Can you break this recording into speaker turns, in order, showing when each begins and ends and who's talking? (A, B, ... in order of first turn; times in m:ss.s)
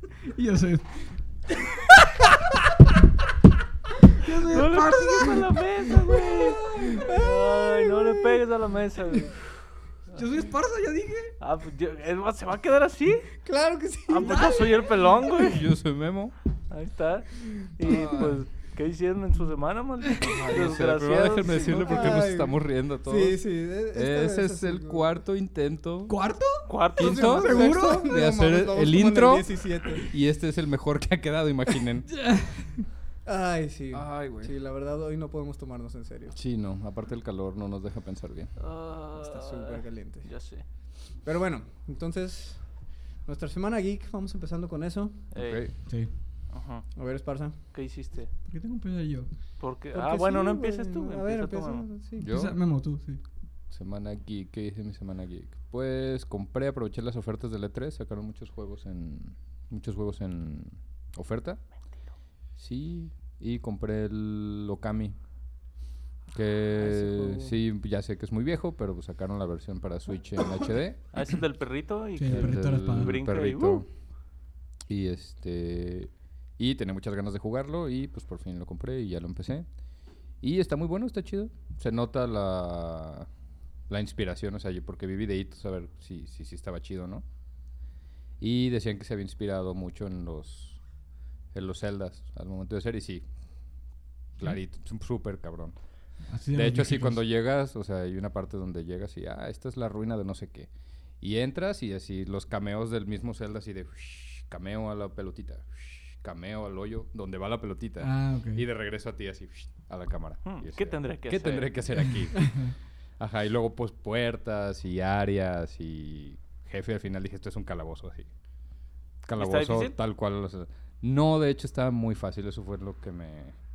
0:00.3-0:01.2 A
0:04.2-0:07.1 A
0:04.5-0:09.4 B
0:06.1-0:08.4 C
0:10.1-0:11.4 A
0:11.4-0:13.3 B
0:13.4-0:15.3 C
0:14.1-0:15.7 B
0:15.2-0:16.4 D
0:16.7-0:22.2 B
0:17.9-0:18.3 D
0:20.2-0:26.1 D
0:21.5-0:25.1 C
0:26.1-0:26.7 A
0:26.7-0:27.5 B
0:27.0-0:32.2 D
0:27.0-0:30.1 C
0:27.3-0:28.2 A
0:32.2-0:32.8 A
0:33.2-0:36.4 C
0:33.9-0:34.5 D
0:36.3-0:38.6 D
0:38.6-0:40.6 B
0:39.2-0:40.3 C
0:41.2-0:45.3 C
0:45.3-0:45.8 B
0:45.4-0:45.7 D
0:45.9-0:46.1 A
0:46.5-0:47.0 B
0:47.0-0:47.6 C
0:47.6-0:48.3 B
0:48.4-0:49.3 A
0:49.6-0:51.9 B
0:49.9-0:52.3 C
0:52.2-0:52.6 D
0:52.2-0:53.2 A
0:53.7-1:01.6 D
1:02.6-1:05.2 D
1:06.3-1:11.3 D
1:06.8-1:07.5 C
1:11.1-1:13.8 B
1:12.2-1:13.2 A
1:12.2-1:13.9 D
1:14.9-1:19.8 D
1:20.4-1:23.3 D
1:23.9-1:27.2 D
1:28.4-1:30.8 D
1:31.5-1:33.2 D
1:34.4-1:35.9 D
1:36.3-1:37.2 A
1:36.5-1:58.3 D
1:48.0-1:48.6 A
1:50.4-1:52.1 B
1:52.0-1:52.7 A
1:59.2-2:03.6 D
1:59.4-2:00.0 B